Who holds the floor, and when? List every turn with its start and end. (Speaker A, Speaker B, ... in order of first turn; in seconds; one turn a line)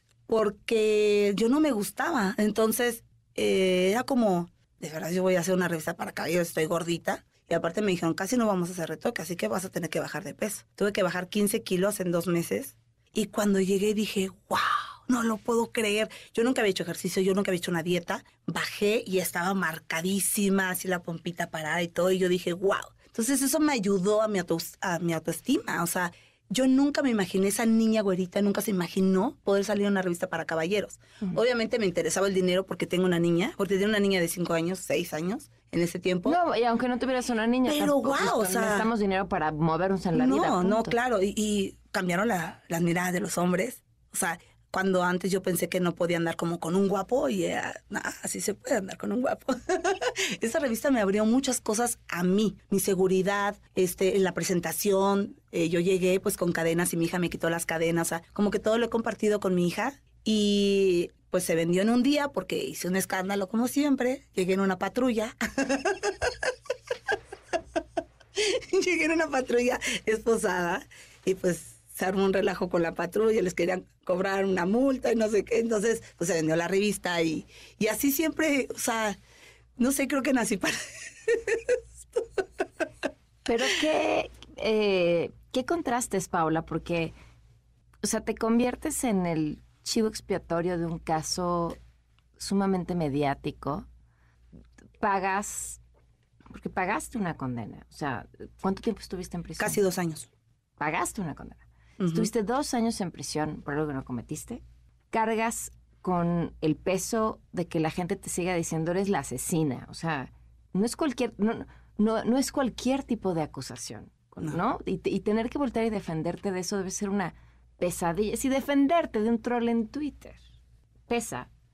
Speaker A: 0.3-36.4
Speaker B: 36.2-41.0
Speaker A: 37.6-38.9
Speaker A: 40.1-66.5
Speaker A: 68.4-79.2
Speaker A: 79.8-82.2
Speaker B: 83.5-87.1
Speaker B: 88.0-91.8
Speaker B: 92.4-93.9
Speaker B: 95.0-95.8
Speaker B: 96.5-99.8
Speaker A: 99.6-100.3
Speaker B: 100.8-120.4
Speaker A: 102.0-102.3
Speaker B: 121.1-121.5